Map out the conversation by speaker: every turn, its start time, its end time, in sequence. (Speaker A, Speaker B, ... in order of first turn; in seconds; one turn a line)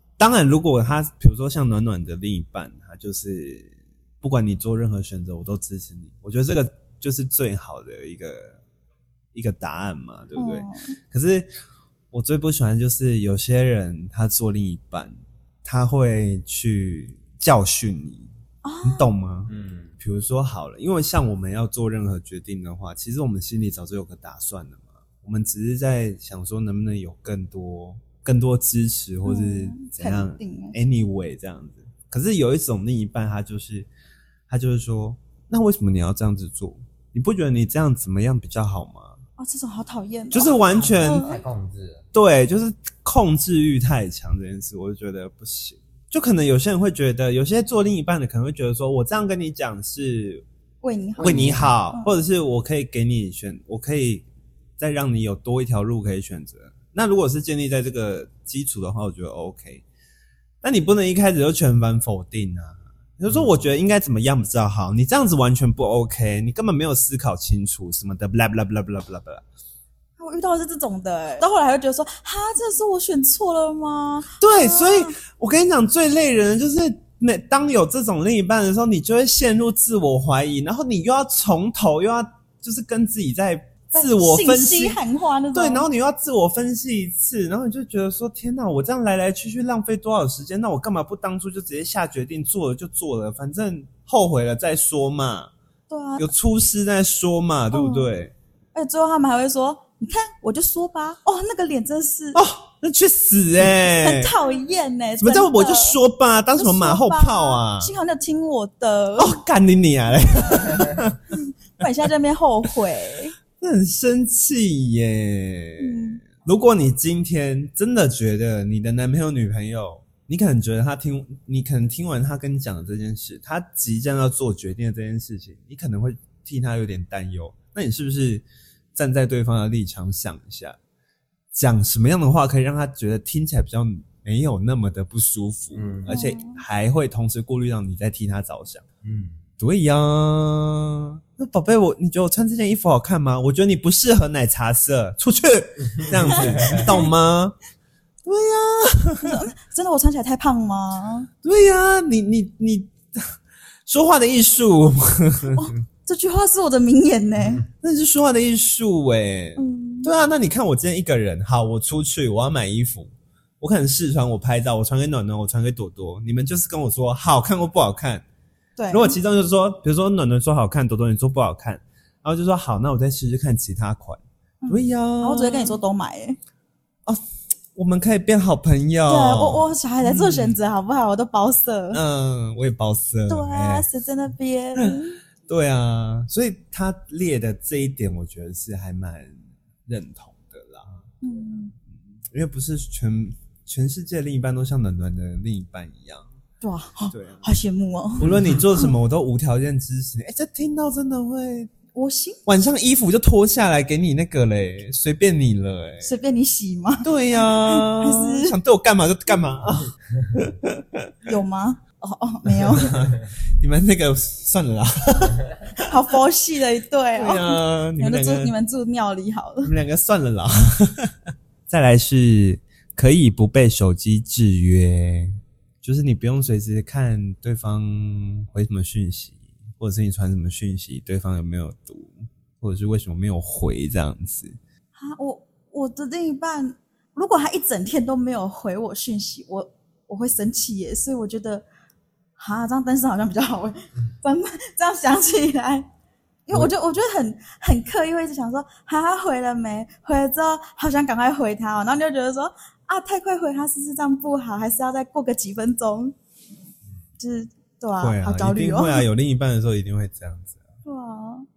Speaker A: 0.2-8.6
Speaker A: 9.3-11.5
Speaker B: 10.4-11.0
Speaker A: 12.1-18.3
Speaker B: 18.6-19.1
Speaker A: 18.8-33.9
Speaker C: 19.5-19.9
Speaker B: 29.2-30.8
Speaker A: 34.5-39.2
Speaker B: 39.4-41.4
Speaker A: 40.3-41.3
Speaker C: 40.7-42.0
Speaker A: 42.1-50.5
Speaker B: 50.8-52.1
Speaker C: 51.2-51.7
Speaker A: 51.2-54.3
Speaker A: 54.8-59.8
Speaker A: 60.6-69.4
Speaker B: 70.2-75.2
Speaker A: 74.4-85.0
Speaker B: 84.0-85.9
Speaker A: 85.5-95.5
Speaker B: 95.9-96.3
Speaker A: 96.2-98.3
Speaker B: 97.7-98.1
Speaker B: 98.8-102.4
Speaker A: 102.3-104.3
Speaker B: 103.8-106.0
Speaker A: 105.2-107.9
Speaker B: 106.6-109.4
Speaker A: 109.2-111.2
Speaker B: 110.5-113.3
Speaker A: 113.6-130.8
Speaker B: 115.8-116.3
Speaker A: 131.5-138.8
Speaker C: 135.7-136.1
Speaker B: 136.1-136.6
Speaker C: 139.0-139.4
Speaker A: 139.6-147.6
Speaker C: 146.0-146.8
Speaker B: 146.4-147.1
Speaker A: 148.2-149.4
Speaker B: 149.2-151.3
Speaker A: 151.4-153.3
Speaker A: 153.9-155.7
Speaker B: 155.5-157.7
Speaker A: 157.7-168.2
Speaker B: 159.6-160.1
Speaker B: 168.8-169.2
Speaker A: 168.9-175.8
Speaker B: 174.6-176.4
Speaker A: 177.8-180.6
Speaker B: 179.1-182.0
Speaker A: 181.9-183.9
Speaker B: 183.3-185.2
Speaker A: 184.8-191.0
Speaker B: 191.2-191.7
Speaker A: 192.3-196.3
Speaker B: 196.6-198.9
Speaker A: 197.1-197.5
Speaker A: 198.2-201.7
Speaker B: 201.9-202.4
Speaker A: 202.5-206.1
Speaker B: 206.0-208.6
Speaker A: 207.0-211.1
Speaker B: 211.3-213.1
Speaker A: 212.4-216.0
Speaker B: 215.8-219.7
Speaker A: 217.2-218.5
Speaker A: 219.6-221.1
Speaker A: 221.7-234.6
Speaker B: 235.0-241.7
Speaker B: 242.4-245.9
Speaker B: 246.5-256.1
Speaker B: 257.2-259.1
Speaker A: 258.0-260.6
Speaker B: 260.9-261.5